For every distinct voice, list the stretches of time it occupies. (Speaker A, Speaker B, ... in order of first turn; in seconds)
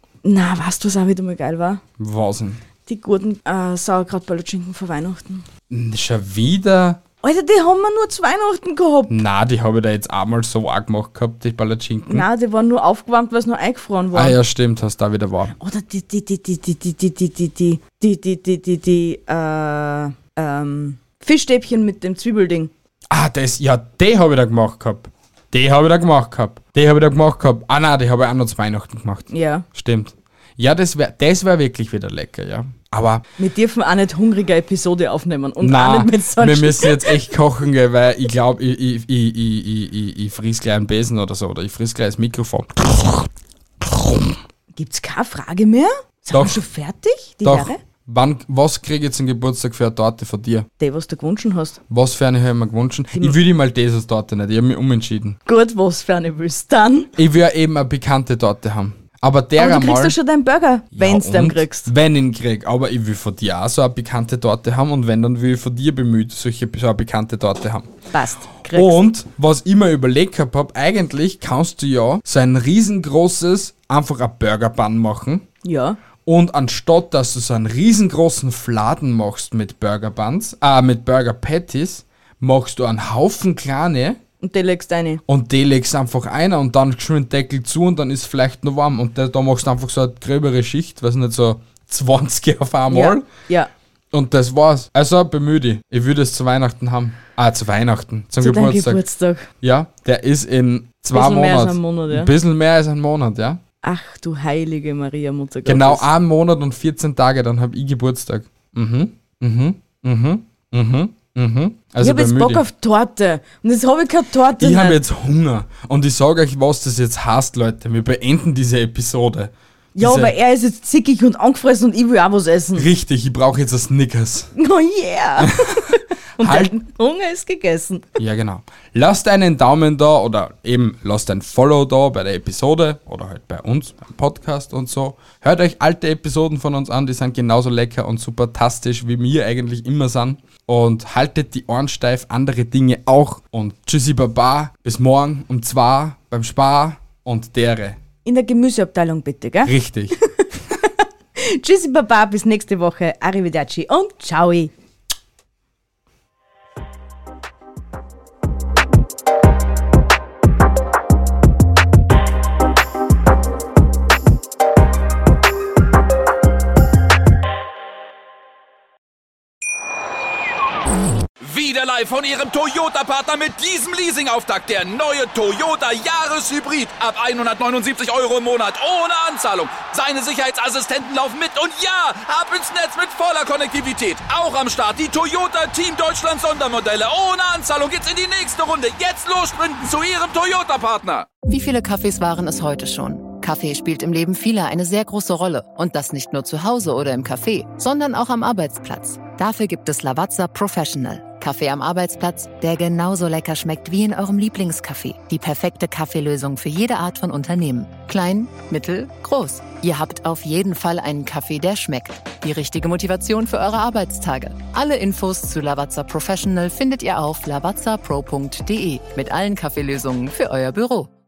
Speaker A: 0.2-1.8, 2.9-5.4, 7.2-9.2, 12.1-14.4, 15.6-22.7, 29.3-29.6, 33.4-37.2, 44.7-47.8, 50.8-51.8, 55.5-57.1, 59.6-61.9, 68.1-69.0, 75.6-76.0, 84.4-85.2, 92.9-93.7, 98.4-99.5, 101.1-102.3, 103.8-106.0, 112.0-115.0, 120.0-122.9, 124.5-128.2, 148.2-154.7
Speaker B: 2.0-2.6, 5.7-7.0, 9.1-12.3, 14.1-15.5, 23.1-33.2, 35.6-43.3, 43.8-44.4, 46.3-46.6, 47.4-50.7, 51.9-55.4, 57.1-60.1, 60.9-67.9, 68.7-75.4, 76.2-84.2, 85.3-93.3, 94.1-99.0, 99.6-103.6, 105.6-112.6, 114.6-120.3, 122.8-124.5, 125.4-126.7, 128.2-148.0, 149.6-150.2
Speaker C: 171.4-191.3
Speaker D: 191.5-221.1